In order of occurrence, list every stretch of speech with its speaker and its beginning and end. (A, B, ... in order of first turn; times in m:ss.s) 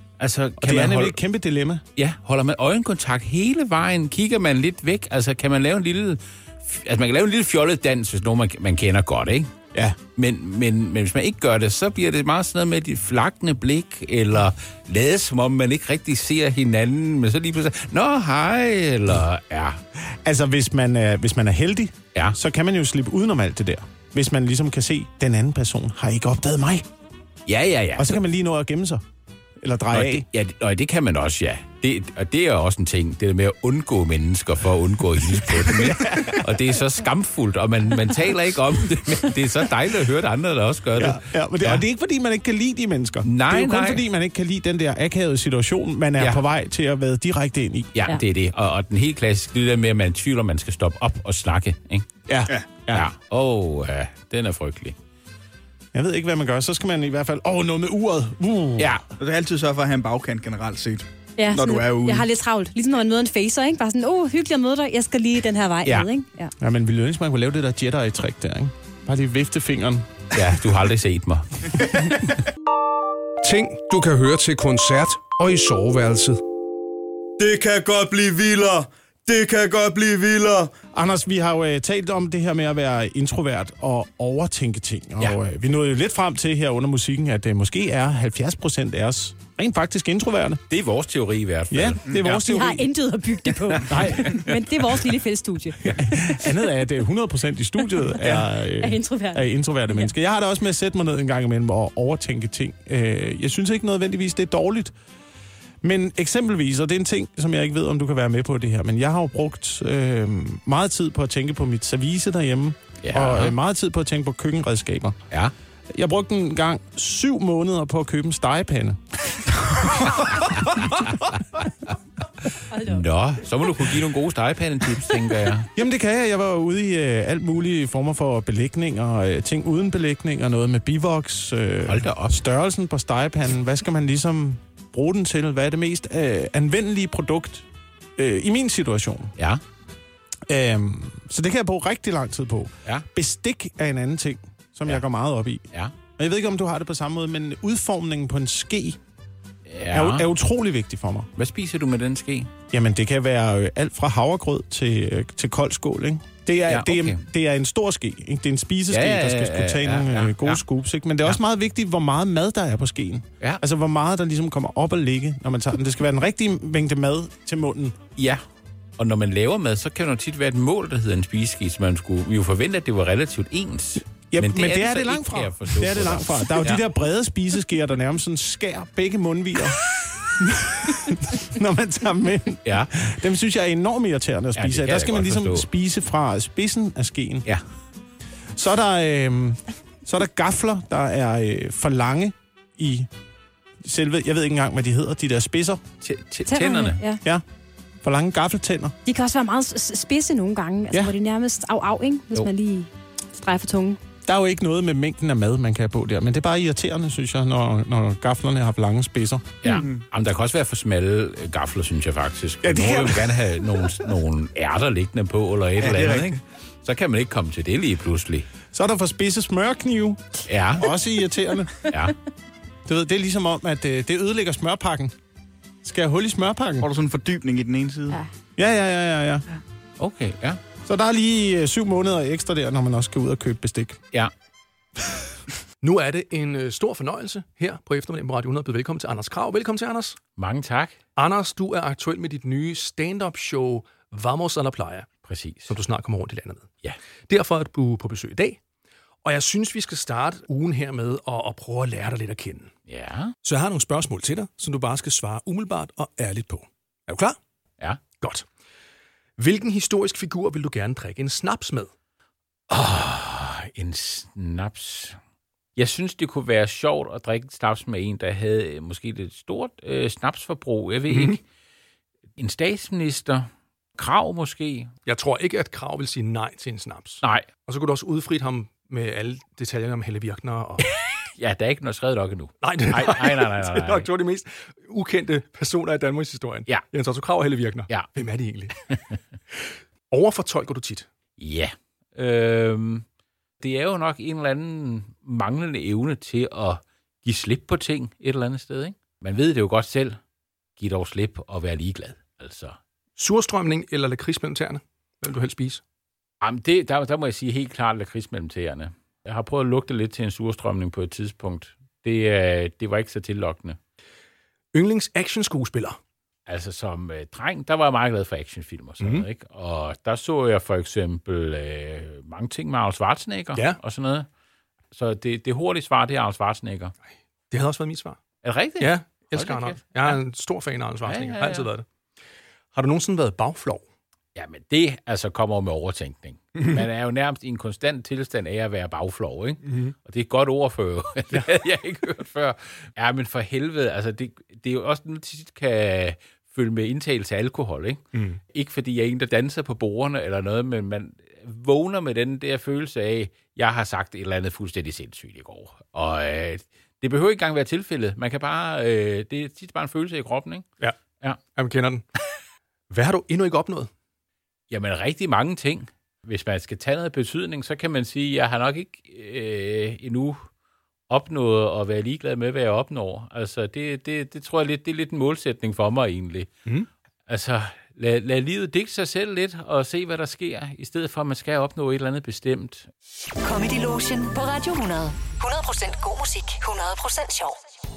0:00.2-0:01.2 A
0:00.6-0:01.8 B
0:02.0-0:09.5 A
0:10.1-0:19.8 A
0:20.2-0:26.8 B
0:27.5-0:28.2 A
0:28.0-0:29.0 B
0:29.6-0:30.2 B
0:29.9-0:41.8 A
0:35.6-0:36.4 B
0:40.9-0:47.9 B
0:43.2-0:44.0 A
0:46.2-0:46.4 A
0:47.9-0:52.1 A
0:52.3-0:53.1 B
0:52.9-0:54.9 A
0:55.9-0:59.0 B
0:59.2-1:02.3 C
1:01.4-1:06.5 D
1:05.8-1:06.1 A
1:06.6-1:10.1 B
1:10.3-1:12.3 A
1:13.4-1:16.4 E
1:17.4-1:20.7 C
1:20.9-1:30.6 B
1:30.7-1:32.4 A
1:31.7-1:32.9 B
1:32.3-1:36.3 D
1:33.8-1:34.4 B
1:35.8-1:36.2 A
1:36.0-1:44.9 B
1:38.6-1:40.1 D
1:45.8-1:55.2 B
1:53.0-1:53.5 A
1:55.9-1:59.0 B
2:00.4-2:01.0 A
2:02.7-2:03.0 D
2:02.8-2:05.7 A
2:05.8-2:17.6 B
2:11.8-2:12.4 A
2:18.2-2:19.3 B
2:20.5-2:25.6 B
2:26.2-2:29.0 B
2:29.7-2:30.2 A
2:29.9-2:31.3 B
2:31.4-2:32.5 A
2:32.7-2:48.0 B
2:36.7-2:37.2 A
2:38.9-2:40.6 A
2:48.2-2:48.4 A
2:49.0-2:56.8 A
2:54.3-2:59.8 B
3:00.4-3:07.5 B
3:02.6-3:02.9 A
3:04.5-3:05.6 A
3:08.5-3:13.1 B
3:13.8-3:15.8 B
3:16.0-3:17.0 A
3:16.4-3:17.2 D
3:18.0-3:18.9 B
3:19.0-3:24.0 D
3:24.2-3:29.4 B
3:29.6-3:38.4 A
3:32.6-3:33.5 B
3:35.8-3:36.4 C
3:38.7-3:40.2 B
3:40.4-3:40.9 A
3:40.8-3:41.9 B
3:41.9-3:42.1 A
3:42.8-3:45.1 B
3:45.8-3:46.9 B
3:46.8-3:48.2 C
3:48.6-3:49.4 B
3:50.0-3:50.6 A
3:50.8-3:54.0 B
3:55.8-4:00.2 F
4:00.4-4:01.0 A
4:01.2-4:05.1 F
4:05.3-4:05.7 A
4:05.6-4:06.7 F
4:07.3-4:08.6 F
4:09.2-4:12.7 F
4:12.9-4:13.3 A
4:13.4-4:17.4 F
4:18.1-4:18.4 F
4:19.4-4:21.9 F
4:22.7-4:25.2 A
4:25.8-4:31.4 A
4:32.4-4:33.4 A
4:34.0-4:34.9 A
4:35.0-4:40.8 F
4:41.4-4:44.1 A
4:42.6-4:51.1 F
4:51.4-4:53.0 A
4:53.6-5:00.2 A
5:00.8-5:02.8 A
5:03.2-5:05.8 F
5:06.4-5:13.8 A
5:14.7-5:16.0 F
5:16.5-5:24.3 A
5:19.0-5:19.3 F
5:24.9-5:26.9 A
5:27.5-5:28.2 F
5:28.4-5:30.2 A
5:28.8-5:31.8 F
5:31.0-5:31.7 A
5:32.7-5:33.8 F
5:34.3-5:48.0 A
5:39.7-5:39.9 F
5:48.1-5:48.4 F
5:48.5-6:00.6 A
6:01.5-6:02.0 F
6:02.9-6:03.9 F
6:04.7-6:10.4 A
6:11.1-6:16.5 A
6:17.3-6:22.9 A
6:23.4-6:27.6 G